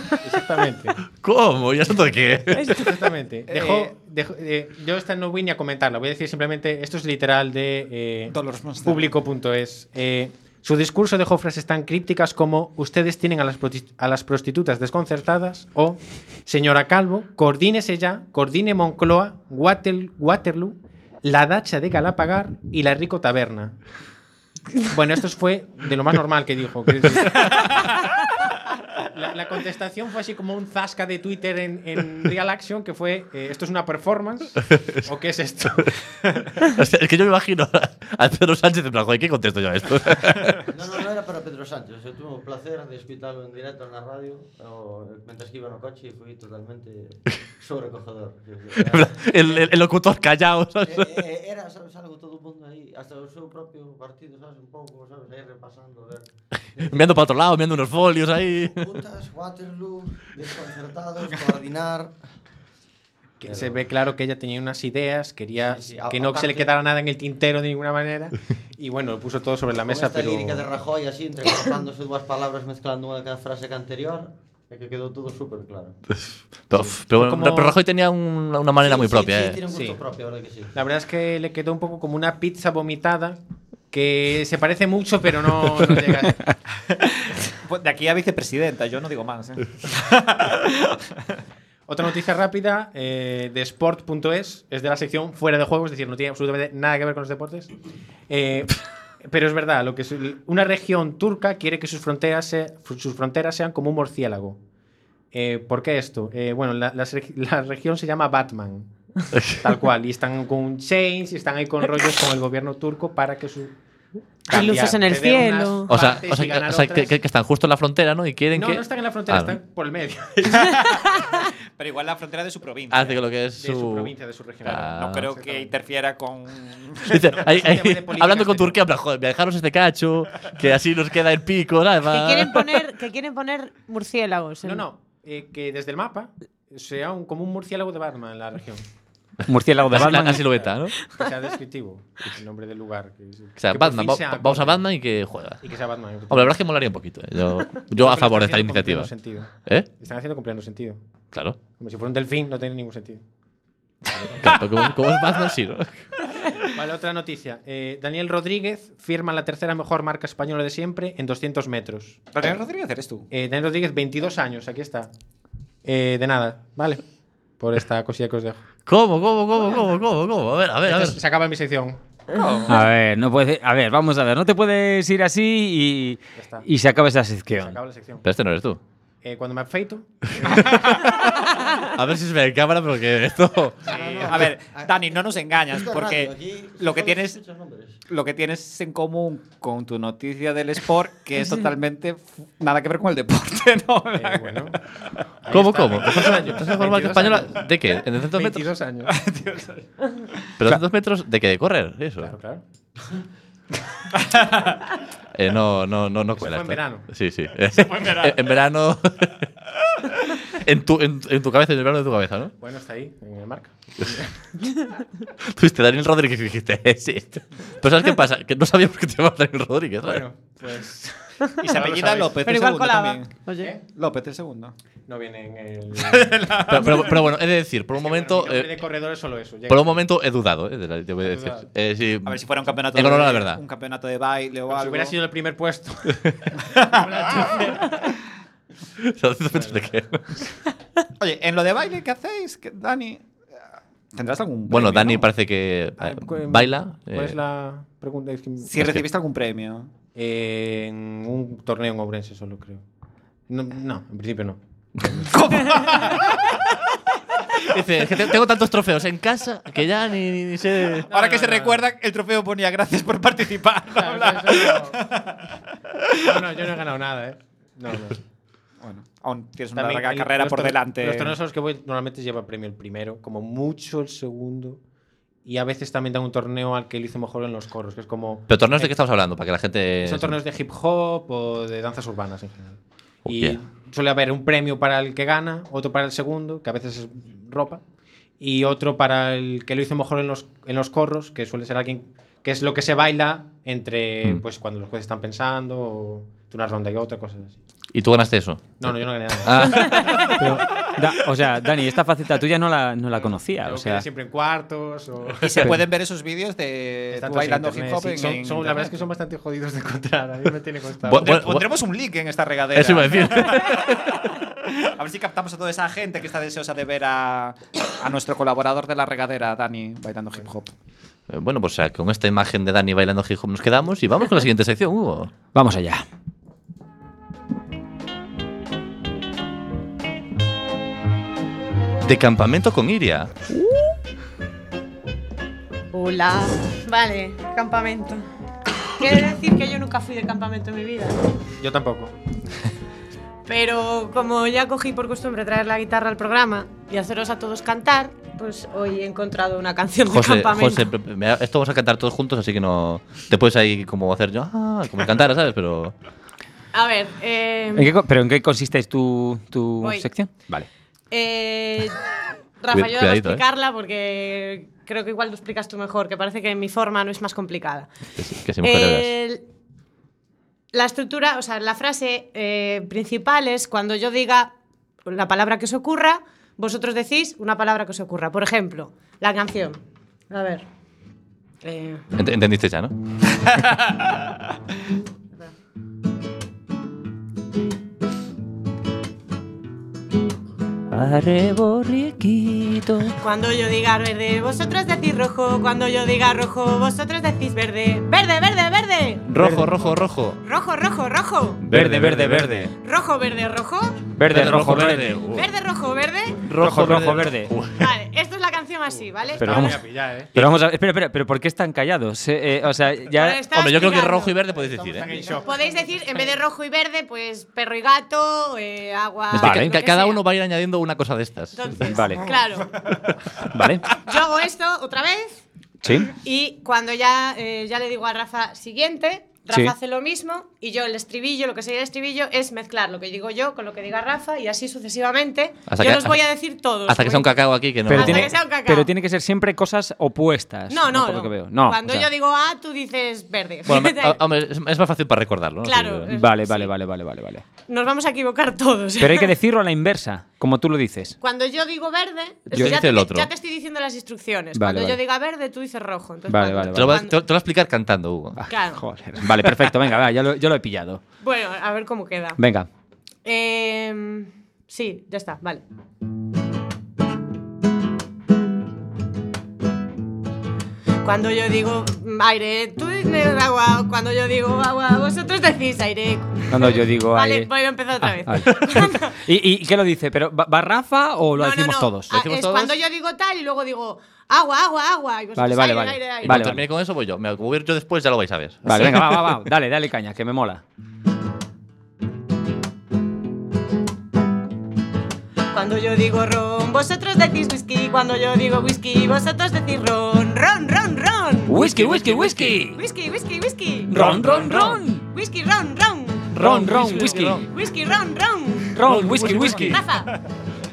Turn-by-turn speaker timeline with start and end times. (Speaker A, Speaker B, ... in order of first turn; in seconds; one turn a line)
Speaker A: 0.2-1.0
Speaker B: 1.2-2.8
Speaker A: 2.6-23.8
Speaker C: 3.5-3.9
Speaker C: 8.3-9.0
Speaker A: 24.9-27.8
Speaker A: 29.0-35.9
Speaker B: 36.6-40.6
Speaker D: 40.7-49.7
Speaker B: 48.8-51.2
Speaker D: 50.8-57.1
Speaker B: 56.8-58.8
Speaker D: 58.7-62.1
Speaker A: 63.4-70.7
Speaker D: 63.5-63.8
Speaker D: 65.6-66.7
Speaker D: 69.8-75.9
Speaker B: 76.7-79.6
Speaker A: 77.0-77.8
Speaker D: 78.8-80.7
Speaker A: 79.7-80.0
Speaker A: 80.7-83.4
Speaker A: 83.9-86.4
Speaker C: 87.6-90.9
Speaker A: 91.9-97.7
Speaker A: 98.3-104.6
Speaker A: 105.3-108.9
Speaker B: 109.3-109.6
Speaker A: 109.6-113.8
Speaker E: 114.5-115.9
Speaker A: 114.5-117.1
Speaker B: 115.9-119.6
Speaker A: 118.5-120.8
Speaker C: 121.8-123.2
Speaker B: 122.9-124.1
Speaker A: 123.6-125.7
Speaker B: 124.6-125.3
Speaker C: 124.9-127.2
Speaker B: 127.1-132.7
Speaker A: 127.4-128.8
Speaker E: 132.1-134.8
Speaker A: 134.6-138.8
Speaker F: 139.5-140.4
Speaker B: 139.9-140.9
Speaker A: 140.3-144.8
Speaker B: 143.6-145.6
Speaker A: 145.6-146.6
Speaker B: 146.3-149.1
Speaker A: 147.9-151.0
Speaker B: 151.3-151.6
Speaker A: 151.8-153.2
Speaker A: 154.2-154.5
Speaker B: 154.4-156.1
Speaker A: 156.7-162.2
Speaker C: 162.3-163.2
Speaker A: 163.3-165.1
Speaker A: 165.8-167.0
Speaker A: 167.6-168.6
Speaker B: 168.9-171.2
Speaker A: 170.8-172.0
Speaker C: 172.3-172.7
Speaker F: 172.7-177.8
Speaker A: 176.3-176.7
Speaker A: 177.5-178.2
Speaker B: 178.2-178.8
Speaker A: 179.2-180.6
Speaker B: 181.9-183.8
Speaker D: 183.8-185.0
Speaker C: 183.9-187.4
Speaker D: 185.6-188.0
Speaker C: 188.1-194.8
Speaker A: 194.1-194.8
Speaker A: 195.4-197.7
Speaker B: 195.5-198.7
Speaker A: 198.3-199.2
Speaker C: 199.1-200.5
Speaker B: 200.6-202.3
Speaker A: 202.2-202.6
Speaker C: 204.2-204.6
Speaker B: 205.3-212.5
Speaker A: 206.4-207.1
Speaker C: 207.8-208.3
Speaker A: 212.6-214.3
Speaker B: 215.5-220.2
Speaker A: 220.0-222.4
Speaker C: 221.6-224.7
Speaker E: 222.4-223.7
Speaker A: 225.1-227.1
Speaker C: 226.1-226.8
Speaker B: 226.7-228.8
Speaker A: 227.9-230.0
Speaker B: 229.7-233.6
Speaker A: 231.2-231.7
Speaker C: 232.2-235.1
Speaker A: 234.7-238.1
Speaker B: 239.0-240.4
Speaker A: 239.5-239.8
Speaker C: 241.2-243.2
Speaker C: 244.1-245.2
Speaker B: 244.7-247.3
Speaker A: 246.0-248.7
Speaker C: 248.7-249.9
Speaker A: 250.1-252.8
Speaker A: 253.5-254.6
Speaker C: 255.3-256.2
Speaker B: 257.6-261.1
Speaker A: 261.1-261.9
Speaker C: 261.1-265.4
Speaker A: 263.9-265.0
Speaker A: 266.2-268.2
Speaker C: 268.8-271.3
Speaker A: 269.7-274.8
Speaker A: 275.4-278.9
Speaker B: 278.5-280.4
Speaker A: 280.0-287.8
Speaker B: 283.3-283.6
Speaker A: 288.4-297.6
Speaker B: 297.9-300.3
Speaker A: 298.8-300.2
Speaker F: 300.3-304.0
Speaker A: 303.6-305.7
Speaker C: 305.4-308.9
Speaker A: 307.1-311.3
Speaker B: 311.1-311.7
Speaker C: 311.1-313.6
Speaker B: 312.7-314.2
Speaker C: 314.8-320.7
Speaker B: 321.3-325.3
Speaker F: 325.5-326.0
Speaker B: 332.1-333.3
Speaker E: 335.9-338.2
Speaker E: 339.0-341.2
Speaker A: 341.6-342.1
Speaker E: 343.5-350.9
Speaker B: 350.1-355.9
Speaker E: 356.7-357.9
Speaker F: 357.7-360.7
Speaker E: 359.8-360.1
Speaker E: 361.1-362.0
Speaker E: 362.6-367.9
Speaker B: 362.7-363.4
Speaker B: 368.2-369.1
Speaker E: 368.6-369.4
Speaker E: 370.7-374.5
Speaker E: 375.0-380.6
Speaker E: 381.6-382.0
Speaker B: 382.1-382.9
Speaker B: 390.9-393.2
Speaker E: 393.2-399.2
Speaker B: 399.2-400.4
Speaker E: 400.4-401.6
Speaker B: 401.6-402.7
Speaker F: 401.6-402.7
Speaker E: 402.8-404.0
Speaker F: 404.1-405.2
Speaker B: 404.2-405.5
Speaker E: 405.3-406.4
Speaker B: 406.4-407.8
Speaker F: 406.6-407.5
Speaker E: 407.8-409.8
Speaker A: 408.9-410.3
Speaker F: 409.4-409.7
Speaker F: 410.3-413.4
Speaker E: 413.1-414.4
Speaker B: 413.5-415.1
Speaker D: 414.7-415.6
Speaker A: 414.8-416.3
Speaker E: 415.4-420.2
Speaker F: 419.3-419.7
Speaker B: 419.3-421.7
Speaker E: 421.5-422.8
Speaker F: 421.9-422.2
Speaker F: 423.5-423.8
Speaker E: 424.0-425.4
Speaker F: 425.8-426.1
Speaker E: 426.1-438.9
Speaker B: 435.7-436.2
Speaker B: 436.9-438.3
Speaker F: 437.9-442.1
Speaker E: 440.7-444.2
Speaker B: 443.6-446.1
Speaker E: 445.6-446.7
Speaker F: 446.1-447.4
Speaker E: 447.7-449.3
Speaker F: 449.0-451.2
Speaker E: 451.2-457.1
Speaker F: 452.5-452.7
Speaker B: 452.5-453.3
Speaker F: 454.5-455.0
Speaker F: 456.3-457.0
Speaker B: 456.7-458.4
Speaker F: 458.4-461.0
Speaker E: 458.5-458.8
Speaker E: 461.2-462.4
Speaker F: 462.4-462.7
Speaker E: 463.2-465.6
Speaker E: 471.0-479.1
Speaker F: 476.5-477.5
Speaker F: 478.0-482.1
Speaker E: 481.4-486.4
Speaker B: 482.1-482.8
Speaker F: 485.4-486.6
Speaker B: 486.2-489.4
Speaker F: 488.6-490.6
Speaker E: 495.5-501.6
Speaker F: 501.5-502.8
Speaker B: 501.6-502.6
Speaker E: 502.7-504.0
Speaker F: 503.9-505.0
Speaker B: 503.9-504.8
Speaker E: 504.9-506.3
Speaker B: 506.3-507.5
Speaker F: 506.3-507.4
Speaker E: 507.5-508.8
Speaker F: 508.7-509.8
Speaker B: 508.8-509.8
Speaker E: 509.6-510.1